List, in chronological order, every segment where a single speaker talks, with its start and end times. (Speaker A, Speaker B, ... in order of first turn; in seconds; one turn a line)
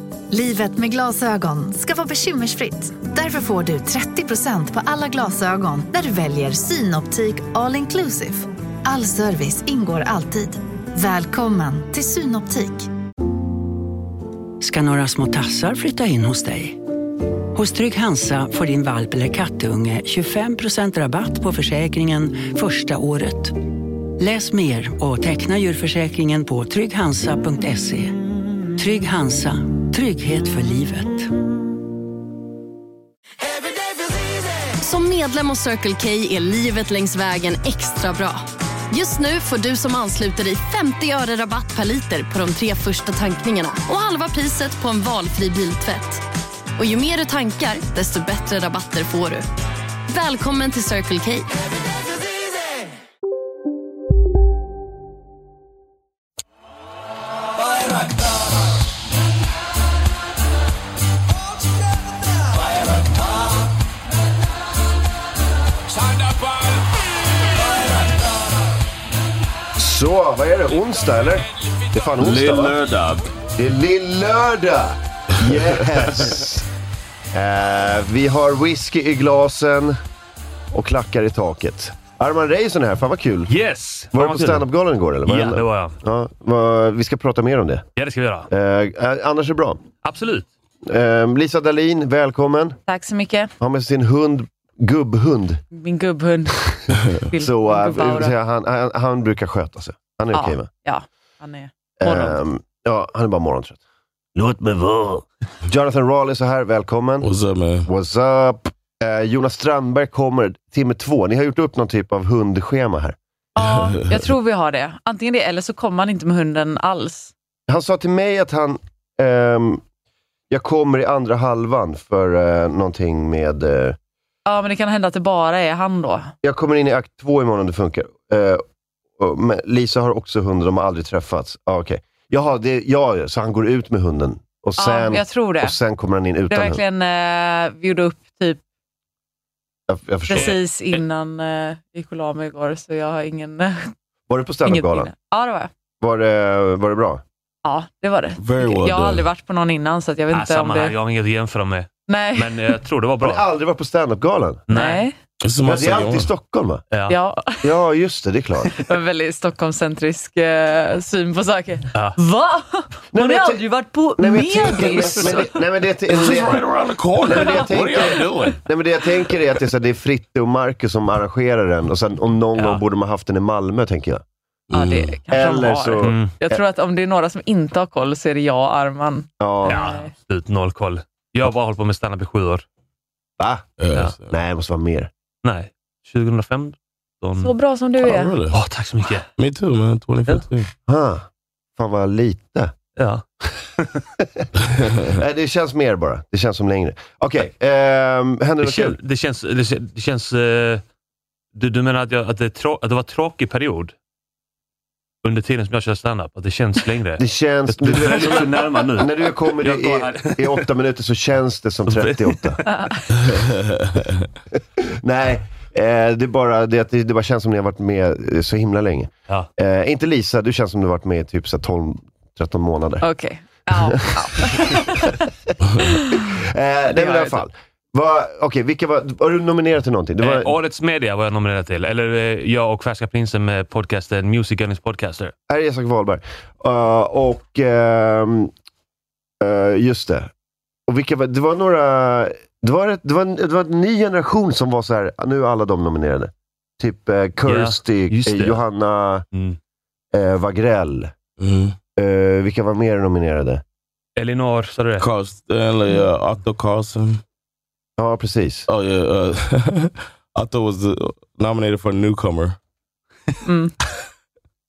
Speaker A: 0.3-12.9
Speaker B: 14.6-16.8
Speaker B: 17.6-23.6
Speaker B: 24.2-28.2
Speaker B: 28.8-31.3
Speaker C: 34.8-46.2
Speaker C: 46.8-49.5
Speaker C: 50.1-51.5
Speaker D: 69.8-72.8
Speaker E: 72.2-73.3
Speaker D: 73.6-76.7
Speaker D: 77.3-80.0
Speaker D: 80.7-83.6
Speaker F: 83.5-84.7
Speaker D: 84.1-87.8
Speaker F: 85.2-86.0
Speaker F: 88.0-88.5
Speaker D: 88.5-89.8
Speaker F: 90.0-90.5
Speaker D: 90.8-92.8
Speaker G: 92.9-93.5
Speaker D: 93.6-95.6
Speaker G: 95.7-98.3
Speaker D: 97.3-100.7
Speaker G: 100.3-102.4
Speaker D: 102.0-103.8
Speaker D: 104.3-107.3
Speaker E: 107.2-107.9
Speaker D: 107.9-113.2
Speaker G: 113.6-117.3
Speaker E: 113.6-114.2
Speaker D: 117.7-119.8
Speaker D: 120.5-124.0
Speaker G: 124.5-126.3
Speaker D: 126.4-128.6
Speaker D: 129.2-136.8
Speaker G: 134.8-135.8
Speaker G: 136.5-138.6
Speaker D: 139.9-140.6
Speaker G: 140.3-143.9
Speaker D: 144.3-145.1
Speaker G: 144.7-145.7
Speaker D: 146.0-147.2
Speaker G: 147.7-151.0
Speaker E: 148.4-149.3
Speaker F: 150.3-153.4
Speaker G: 152.1-152.7
Speaker D: 153.2-154.6
Speaker F: 154.7-155.1
Speaker G: 154.7-155.2
Speaker E: 155.4-156.3
Speaker D: 155.6-156.8
Speaker F: 156.9-157.2
Speaker G: 157.1-157.7
Speaker D: 157.6-158.7
Speaker G: 158.8-165.4
Speaker D: 163.1-163.7
Speaker D: 164.2-166.6
Speaker F: 164.8-165.2
Speaker E: 166.1-168.6
Speaker D: 167.2-174.2
Speaker F: 172.6-172.8
Speaker E: 174.7-175.2
Speaker G: 174.7-180.1
Speaker D: 175.3-176.6
Speaker F: 176.0-176.3
Speaker D: 179.4-179.8
Speaker F: 179.7-182.7
Speaker D: 183.4-183.7
Speaker E: 183.8-184.3
Speaker F: 183.9-184.2
Speaker D: 184.3-185.1
Speaker F: 185.4-187.5
Speaker G: 187.4-188.3
Speaker E: 188.0-188.6
Speaker F: 188.5-189.3
Speaker E: 189.4-190.7
Speaker D: 190.9-192.7
Speaker F: 193.0-193.2
Speaker D: 194.2-194.5
Speaker E: 194.7-195.1
Speaker D: 195.1-199.0
Speaker F: 198.6-200.8
Speaker F: 201.5-203.9
Speaker F: 205.2-210.7
Speaker D: 207.2-212.6
Speaker F: 211.9-212.7
Speaker G: 212.7-213.0
Speaker E: 213.3-214.2
Speaker D: 214.8-223.1
Speaker G: 223.0-225.2
Speaker D: 223.7-224.7
Speaker G: 225.8-226.3
Speaker D: 226.1-230.5
Speaker F: 226.9-227.4
Speaker F: 230.2-235.3
Speaker D: 235.5-238.5
Speaker D: 239.4-240.3
Speaker D: 240.9-249.2
Speaker F: 247.4-248.6
Speaker F: 249.3-249.6
Speaker D: 250.1-251.2
Speaker E: 251.4-251.8
Speaker D: 252.0-253.6
Speaker F: 254.2-255.1
Speaker E: 255.0-257.2
Speaker D: 258.0-258.7
Speaker E: 258.7-262.6
Speaker G: 263.4-263.7